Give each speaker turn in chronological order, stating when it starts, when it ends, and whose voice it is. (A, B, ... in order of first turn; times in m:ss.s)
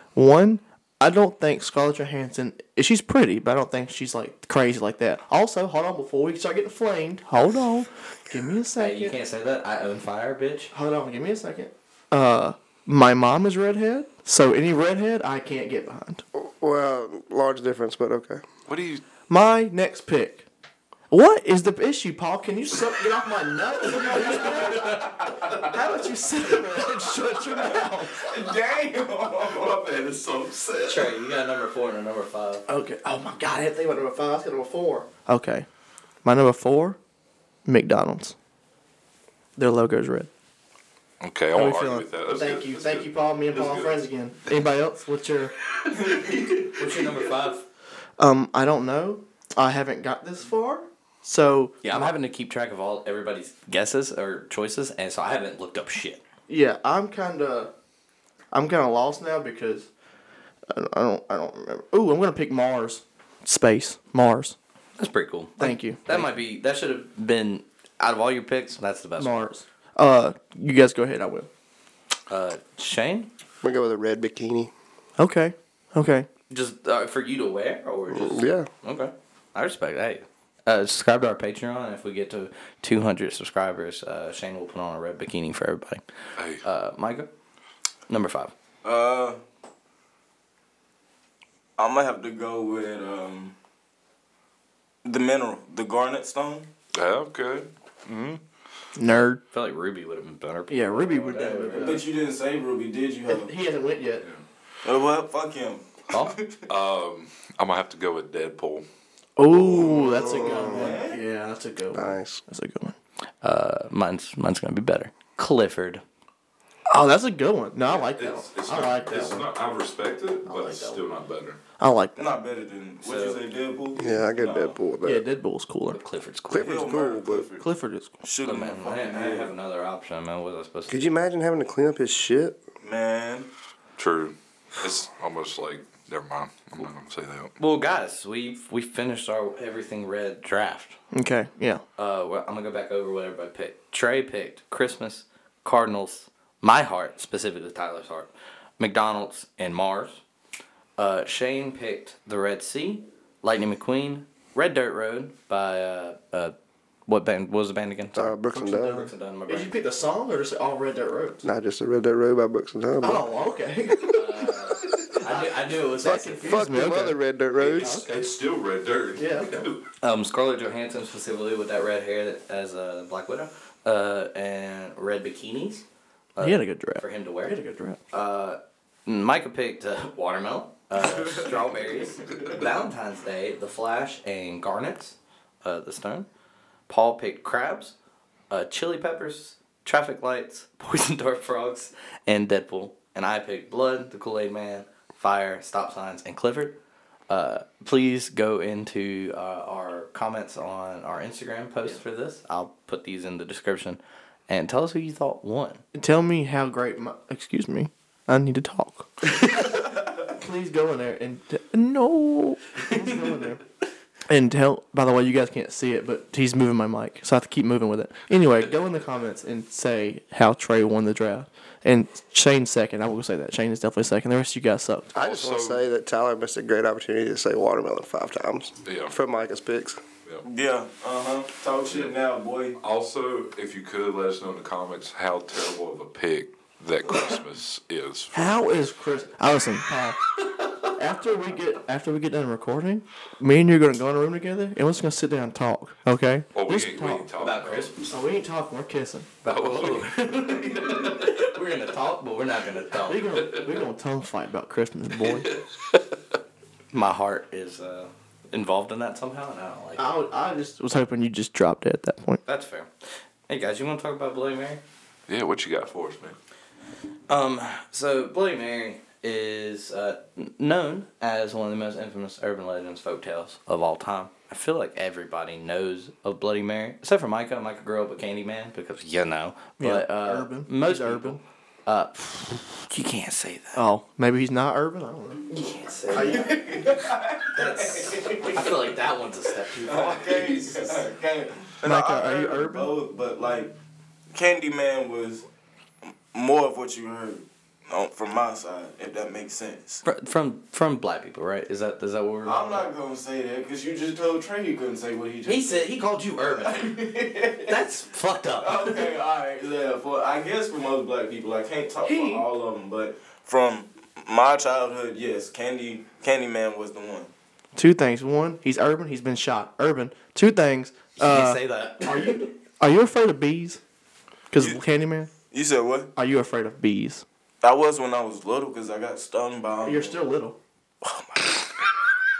0:00.2-0:09.2 A
0:08.8-0:10.7 B
0:10.7-0:16.2 A
0:16.3-0:18.4 C
0:18.7-0:19.0 D
0:19.3-0:20.4 A
0:21.1-0:28.4 A
0:24.5-0:25.6 D
0:28.2-0:29.8 E
0:29.5-0:31.1 D
0:30.8-0:32.6 B
0:32.7-0:35.7 A
0:36.2-0:37.0 A
0:37.6-0:38.4 A
0:39.6-0:40.3 A
0:41.2-0:44.5 D
0:41.6-0:45.5 A
0:45.9-0:46.7 E
0:46.8-0:47.6 B
0:48.2-0:52.2 A
0:51.8-0:56.2 B
0:56.5-0:57.7 A
0:58.5-0:59.9 A
1:00.7-1:04.6 A
1:05.0-1:09.3 B
1:05.6-1:06.3 A
1:09.2-1:11.5 A
1:12.3-1:13.3 B
1:13.6-1:14.7 C
1:15.2-1:16.3 A
1:16.5-1:26.0 B
1:18.1-1:18.7 C
1:26.4-1:26.6 D
1:26.6-1:27.3 B
1:28.1-1:28.5 B
1:28.8-1:29.4 E
1:31.8-1:33.5 E
1:35.0-1:36.7 E
1:36.9-1:38.4 D
1:39.0-1:39.4 A
1:39.1-1:42.0 B
1:40.7-1:42.1 A
1:41.8-1:43.5 E
1:43.3-1:44.2 A
1:44.8-1:46.7 E
1:46.1-1:46.4 B
1:46.7-1:48.8 D
1:49.4-1:53.0 A
1:49.5-1:51.0 C
1:50.0-1:51.2 E
1:51.9-1:52.4 C
1:53.4-1:56.0 B
1:56.9-1:59.5 A
1:57.8-2:01.6 D
2:00.5-2:00.8 B
2:01.8-2:02.4 A
2:02.2-2:04.8 E
2:03.0-2:03.4 B
2:04.0-2:05.2 C
2:05.0-2:06.0 A
2:05.9-2:06.9 B
2:06.5-2:07.5 C
2:06.6-2:07.7 E
2:07.6-2:08.2 A
2:08.2-2:09.5 E
2:08.4-2:11.0 B
2:10.9-2:12.6 C
2:12.8-2:13.5 E
2:14.0-2:17.5 D
2:17.6-2:21.0 B
2:21.1-2:21.8 A
2:22.0-2:30.2 B
2:31.0-2:36.6 B
2:37.1-2:39.8 B
2:38.2-2:39.1 C
2:38.5-2:41.4 A
2:41.4-2:43.3 C
2:43.0-2:44.6 A
2:44.1-2:46.6 B
2:45.1-2:48.3 A
2:46.2-2:48.0 C
2:47.7-2:49.9 D
2:49.2-2:49.6 A
2:50.0-3:06.3 B
2:56.4-2:58.0 A
3:06.9-3:08.0 B
3:08.5-3:16.8 B
3:17.3-3:25.8 B
3:25.9-3:29.7 A
3:30.3-3:33.6 A
3:34.3-3:45.1 A
3:45.1-3:45.8 D
3:45.1-3:50.0 C
3:48.8-3:49.1 D
3:50.4-3:52.8 E
3:51.9-3:52.1 D
3:52.8-3:58.9 D
3:58.3-4:00.2 A
4:00.9-4:07.2 A
4:06.5-4:08.0 D
4:07.4-4:08.2 B
4:08.1-4:09.3 A
4:09.4-4:13.4 B
4:09.5-4:11.2 D
4:13.1-4:15.5 A
4:15.3-4:16.0 D
4:16.9-4:20.3 B
4:20.0-4:22.4 A
4:22.4-4:22.9 B
4:23.5-4:24.8 B
4:25.3-4:26.4 D
4:27.3-4:43.8 B
4:39.8-4:41.4 A
4:43.8-4:45.5 A
4:45.5-4:46.6 B
4:46.1-4:48.7 E
4:47.5-4:51.0 B
4:49.8-4:53.7 E
4:51.8-4:52.9 A
4:54.3-4:55.4 E
4:56.3-5:00.0 E
5:00.0-5:02.9 B
5:02.4-5:05.8 E
5:05.5-5:07.0 B
5:06.6-5:07.8 E
5:07.6-5:09.1 B
5:08.6-5:17.3 E
5:12.1-5:12.5 A
5:17.8-5:23.8 A
5:21.2-5:22.5 B
5:24.5-5:25.3 A
5:24.6-5:24.8 E
5:25.5-5:26.1 E
5:26.2-5:27.2 A
5:27.6-5:30.2 E
5:29.9-5:30.6 A
5:31.0-5:31.7 E